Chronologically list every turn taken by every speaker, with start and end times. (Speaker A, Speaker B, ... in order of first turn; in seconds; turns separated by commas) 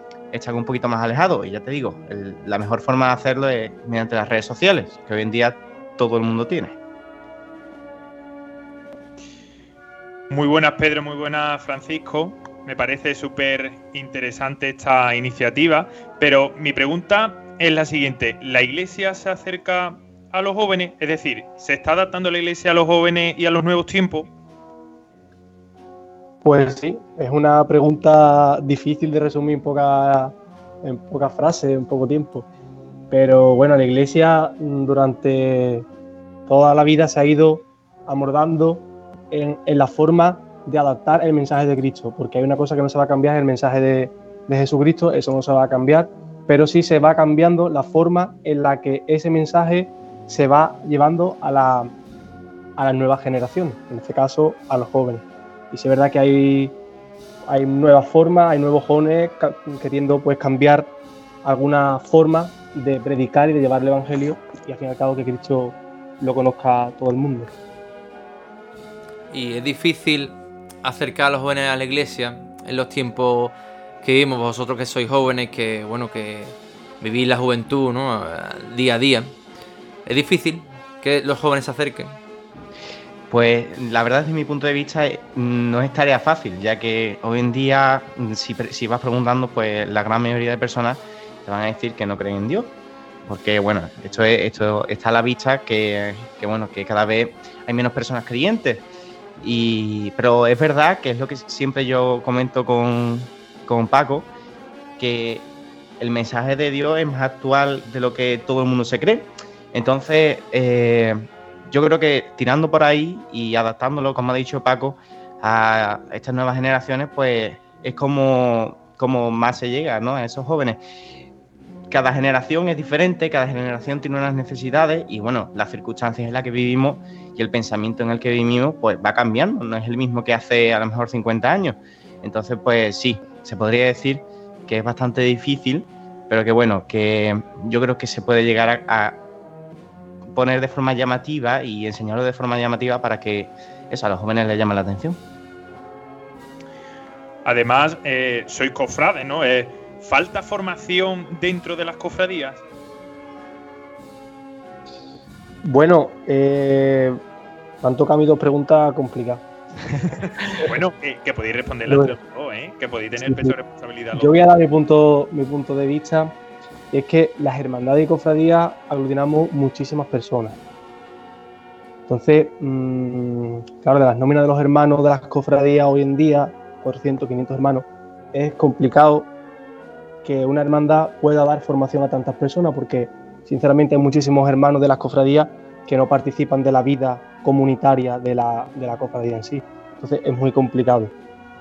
Speaker A: 0.3-6.8, Speaker B: 10.3-24.3, Speaker C: 26.4-32.5, Speaker C: 33.1-35.9, Speaker C: 36.5-51.9, Speaker C: 52.8-56.7, Speaker C: 57.5-60.9, Speaker C: 61.4-67.5, Speaker D: 69.3-79.3, Speaker D: 80.0-82.2, Speaker A: 83.3-92.7, Speaker A: 93.2-98.8, Speaker A: 99.4-104.3, Speaker A: 105.0-105.5, Speaker A: 106.0-120.8, Speaker A: 121.9-139.2, Speaker A: 140.3-145.2, Speaker B: 147.4-152.6, Speaker C: 155.6-157.2, Speaker C: 157.8-159.4, Speaker B: 160.5-164.3, Speaker C: 161.8-162.2, Speaker C: 163.2-163.5, Speaker C: 164.1-166.3, Speaker C: 166.9-170.6, Speaker C: 172.1-179.3, Speaker C: 180.2-191.1